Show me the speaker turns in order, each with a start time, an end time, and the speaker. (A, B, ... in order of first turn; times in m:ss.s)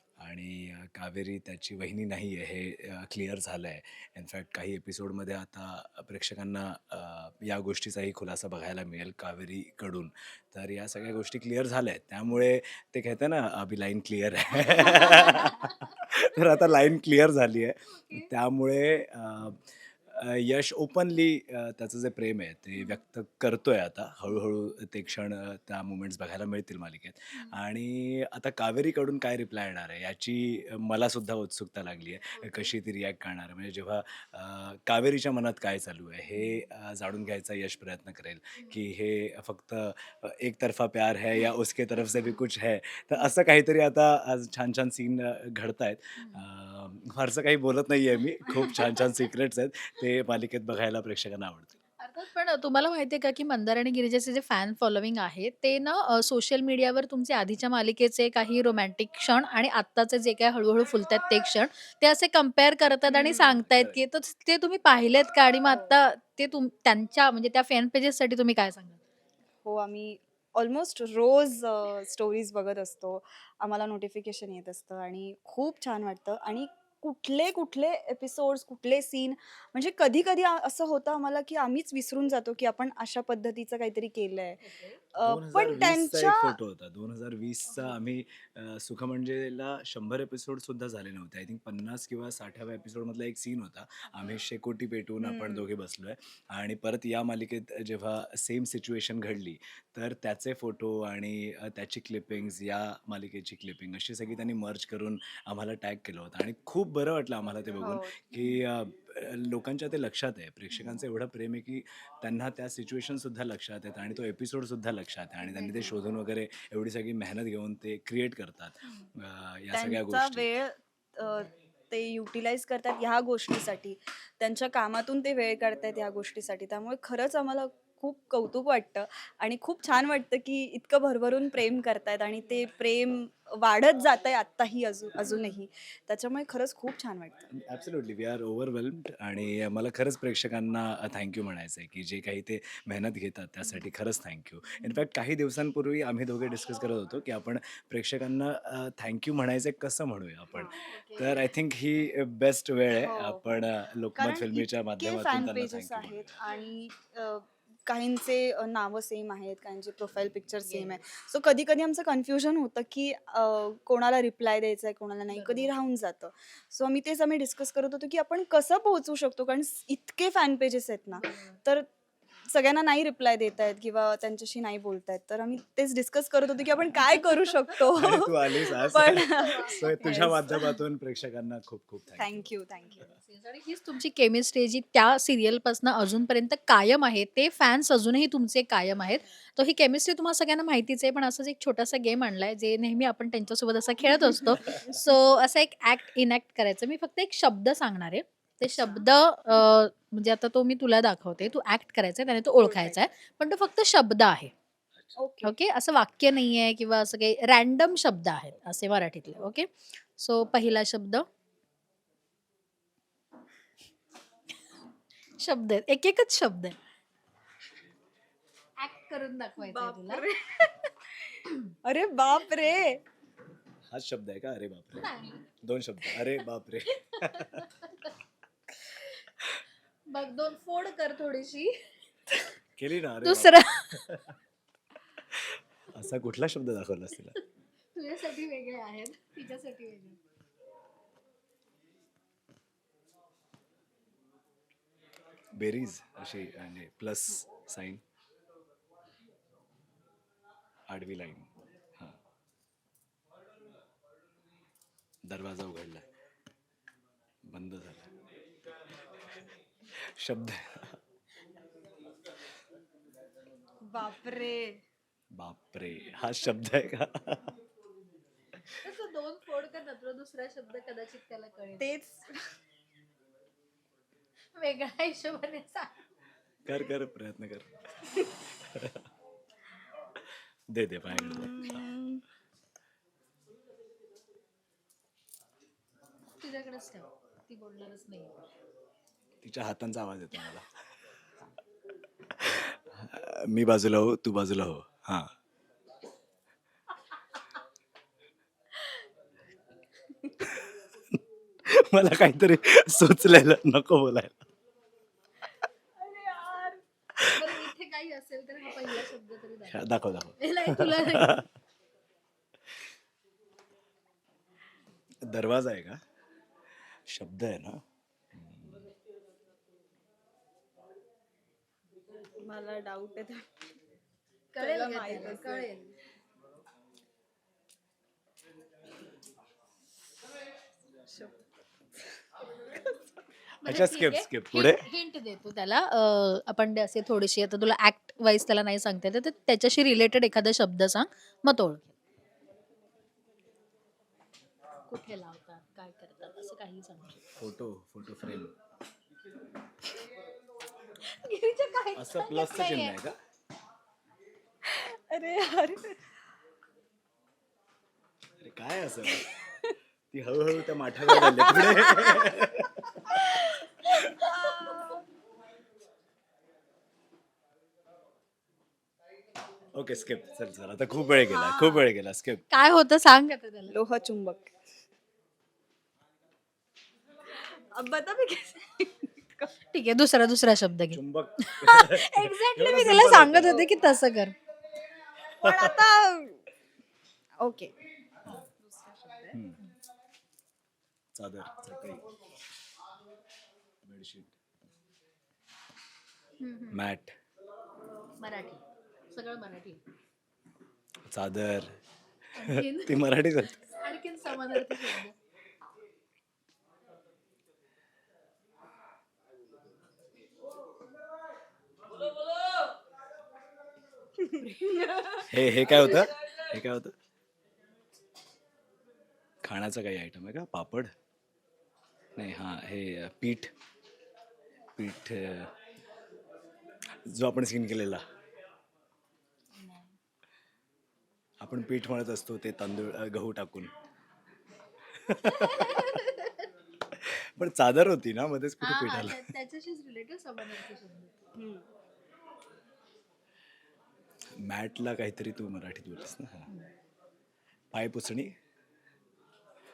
0:00.2-0:51.8 A
0:14.6-0:15.9 B
0:18.0-0:18.3 B
0:36.3-0:36.6 B
0:46.2-0:46.4 B
0:52.0-1:09.0 B
1:03.1-1:03.5 C
1:03.3-1:04.0 A
1:05.7-1:05.9 C
1:09.6-1:24.6 C
1:24.6-1:25.0 B
1:25.1-1:26.6 C
1:25.2-2:00.5 A
1:35.2-1:35.7 C
1:47.8-1:48.1 C
1:48.3-1:48.6 B
1:50.7-1:51.0 B
1:55.4-1:56.0 B
1:58.8-1:59.1 B
1:59.7-2:17.4 C
2:15.3-2:15.6 B
2:17.5-2:36.4 A
2:30.7-2:31.5 B
2:33.0-2:51.9 C
2:40.6-2:41.0 B
2:45.3-2:45.7 B
2:51.1-2:51.6 B
2:52.5-3:00.6 C
2:57.3-2:57.8 B
2:57.9-3:02.4 A
2:58.9-3:00.6 B
3:02.2-3:03.1 C
3:02.8-3:24.5 B
3:18.8-3:19.1 C
3:22.6-3:23.0 C
3:25.1-3:25.5 C
3:25.4-3:31.2 B
3:35.4-3:36.8 B
3:38.8-3:40.2 B
3:39.6-3:40.7 C
3:41.8-3:43.0 C
3:43.9-3:45.1 A
3:45.0-3:45.4 B
3:45.6-3:47.7 A
3:46.0-3:46.4 B
3:47.1-3:48.1 B
3:48.9-3:49.2 B
3:50.1-3:51.8 B
3:52.8-3:54.2 A
3:53.2-3:54.1 B
3:55.9-3:57.4 A
3:57.9-4:00.2 B
4:05.6-4:08.0 A
4:10.9-4:12.2 A
4:15.2-4:16.1 A
4:17.5-4:18.1 A
4:20.0-4:21.0 A
4:23.9-4:24.8 C
4:25.4-4:27.4 A
4:28.8-4:32.0 B
4:31.8-4:32.4 C
4:34.6-4:35.9 B
4:36.7-4:39.0 A
4:40.7-4:41.9 A
4:41.1-4:42.2 C
4:46.4-4:48.4 B
4:49.4-4:50.7 A
4:52.3-4:55.3 A
5:00.2-5:00.5 C
5:01.7-5:04.4 A
5:06.0-5:06.8 C
5:07.2-5:07.6 A
5:07.2-5:11.4 B
5:09.7-5:11.4 A
5:15.2-5:16.0 A
5:17.1-5:17.8 A
5:18.4-5:18.9 A
5:22.4-5:23.4 C
5:24.5-5:25.9 B
5:24.6-5:25.7 C
5:31.1-5:31.4 C
5:33.6-5:42.0 B
5:33.6-5:34.8 A
5:44.9-5:47.4 B
5:47.4-5:48.5 A
5:51.1-5:53.0 B
5:52.0-5:53.1 A
5:54.6-5:56.1 C
5:58.4-5:59.3 A
5:59.0-5:59.8 C
6:00.1-6:03.3 A
6:01.1-6:02.4 C
6:03.4-6:05.0 C
6:09.7-6:12.5 A
6:11.0-6:11.9 C
6:12.5-6:13.8 B
6:13.7-6:14.5 C
6:17.7-6:19.5 C
6:19.7-6:24.4 B
6:20.9-6:23.7 A
6:25.3-6:26.4 C
6:25.4-6:25.7 A
6:27.4-6:27.7 C
6:28.4-6:29.4 C
6:29.3-6:29.6 A
6:31.1-6:32.0 A
6:33.8-6:34.3 A
6:36.4-6:36.8 B
6:36.7-6:37.1 A
6:38.2-6:39.8 B
6:41.1-6:41.7 A
6:42.4-6:45.2 B
6:42.4-6:43.6 A
6:54.2-6:55.3 C
6:55.3-6:56.9 A
6:59.4-7:00.9 A
7:02.2-7:03.5 A
7:04.8-7:05.5 A
7:07.1-7:08.0 A
7:09.6-7:09.9 B
7:11.4-7:13.7 A
7:15.0-7:15.8 A
7:15.2-7:16.5 B
7:17.0-7:19.3 A
7:18.6-7:21.2 B
7:21.4-7:21.6 C
7:24.4-7:26.5 A
7:27.7-7:28.3 A